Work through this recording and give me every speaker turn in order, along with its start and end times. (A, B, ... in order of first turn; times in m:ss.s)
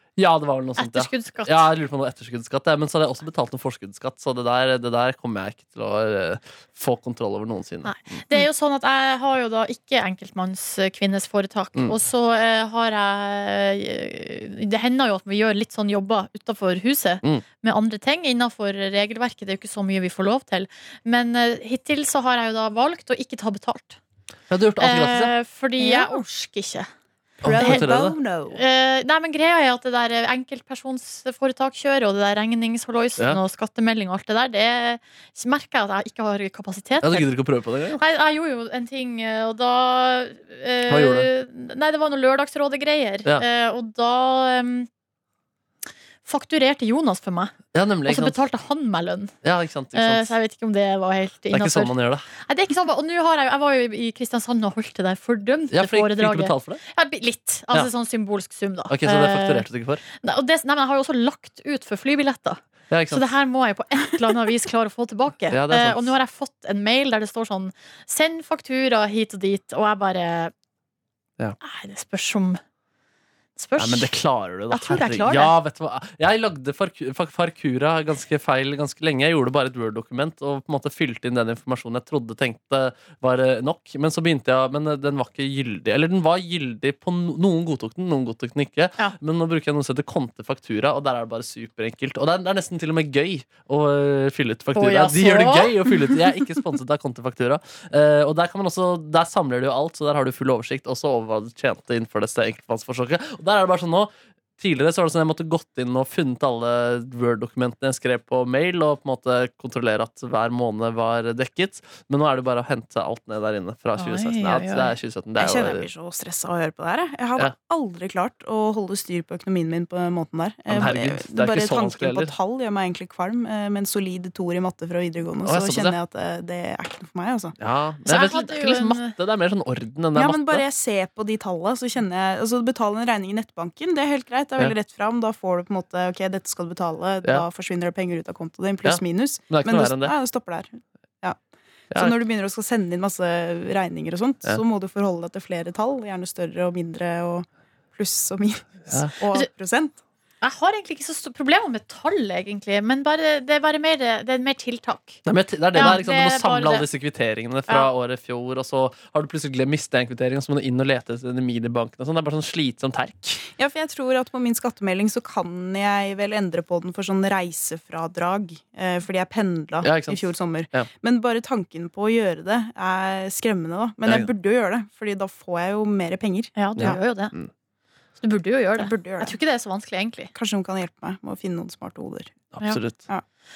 0:00.2-0:08.2 A
0:00.8-0:01.7 B
0:07.8-0:24.0 B
0:24.5-0:25.3 A
0:24.8-0:26.9 B
0:25.8-0:26.2 C
0:27.4-0:28.2 A
0:27.4-0:28.6 C
0:27.5-0:27.8 B
0:28.5-0:37.3 B
0:37.0-0:38.0 A
0:38.0-0:44.9 B
0:40.9-0:41.3 A
0:46.2-0:49.3 B
0:47.7-0:48.4 A
0:49.4-0:50.4 A
0:49.9-1:10.5 B
0:51.5-0:52.3 A
0:55.7-0:56.8 A
0:58.9-1:00.0 A
1:02.9-1:03.3 A
1:05.5-1:06.2 A
1:11.6-1:12.6 B
1:13.6-1:14.1 B
1:13.8-1:55.9 A
1:14.7-1:15.5 C
1:34.7-1:35.9 B
1:54.0-1:54.9 B
1:55.4-2:07.5 C
2:00.7-2:02.3 A
2:05.4-2:06.0 A
2:07.6-2:10.6 A
2:08.0-2:09.1 B
2:10.1-2:21.4 C
2:18.8-2:20.1 A
2:21.9-2:30.0 C
2:30.4-2:36.9 B
2:35.2-2:43.5 A
2:43.5-2:57.0 C
2:49.8-2:50.9 A
2:56.6-2:57.3 B
2:56.8-2:57.5 A
2:58.2-3:00.3 B
2:58.8-2:59.4 C
3:00.3-3:02.5 C
3:02.5-3:03.0 A